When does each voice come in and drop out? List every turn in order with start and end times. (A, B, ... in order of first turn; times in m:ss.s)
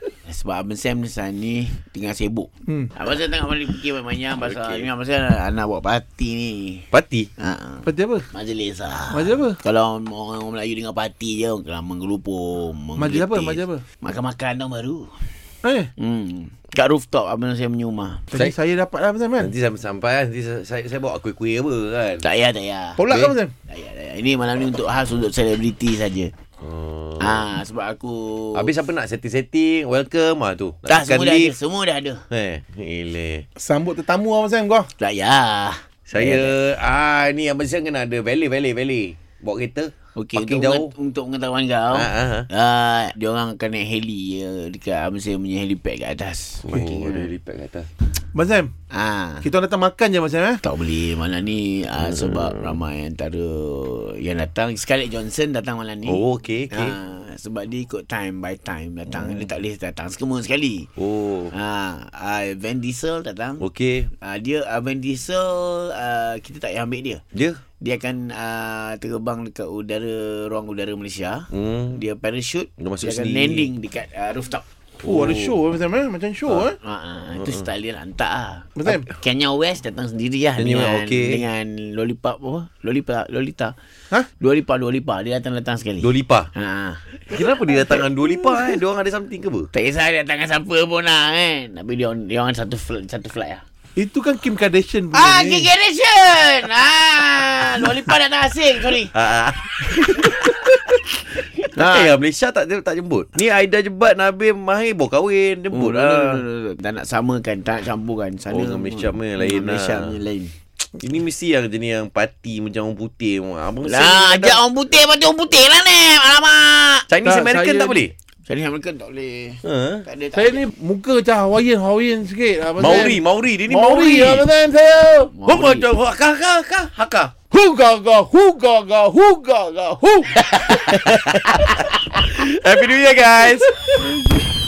0:00.2-0:15.2 A
0:04.3-0:04.9 B
0:06.9-0:07.3 B
0:07.9-0:08.3 C
0:09.1-0:09.6 C
0:13.0-0:13.8 C
0:15.6-0:15.9 C
0:16.0-0:18.2 A
0:18.3-0:19.5 C
0:19.4-0:22.2 B
0:22.2-0:23.0 A
0:23.0-0:23.5 C
0:23.1-0:23.4 B
0:23.7-0:26.3 A
0:26.6-0:27.4 B
0:27.2-0:28.7 A
0:28.6-0:31.6 B
0:30.9-0:32.2 A
0:32.3-0:33.5 B
0:33.6-0:34.9 C
0:35.0-0:36.6 A
0:36.1-0:40.9 B
0:40.2-0:47.3 A
0:41.9-0:42.5 B
0:46.6-0:47.9 B
0:48.3-0:48.7 C
0:48.9-0:49.5 A
0:49.4-0:50.6 C
0:50.6-0:56.2 A
0:56.1-0:57.0 B
0:56.7-1:00.9 A
1:01.0-1:01.5 B
1:01.5-1:07.2 A
1:03.6-1:04.1 B
1:07.3-1:07.6 B
1:07.8-1:14.6 A
1:11.5-1:12.0 B
1:12.8-1:13.7 B
1:15.0-1:16.8 C
1:15.0-1:15.6 B
1:16.8-1:23.8 A
1:18.8-1:19.1 C
1:20.6-1:21.4 B
1:24.4-1:27.0 A
1:26.0-1:26.5 B
1:27.3-1:29.7 B
1:29.7-1:33.6 A
1:34.0-1:35.7 C
1:35.1-1:39.1 A
1:39.1-1:40.7 B
1:41.6-1:46.4 B
1:41.6-1:42.2 A
1:45.7-1:50.6 A
1:48.5-1:50.1 B
1:51.0-1:54.6 B
1:53.8-1:57.1 A
1:57.1-1:58.1 B
1:57.2-1:58.0 C
1:58.5-2:00.7 A
1:59.6-2:00.0 B
2:00.3-2:05.4 C
2:02.8-2:04.5 B
2:05.3-2:05.9 A
2:05.4-2:07.3 B
2:07.5-2:10.4 C
2:10.4-2:12.2 A
2:10.7-2:13.7 B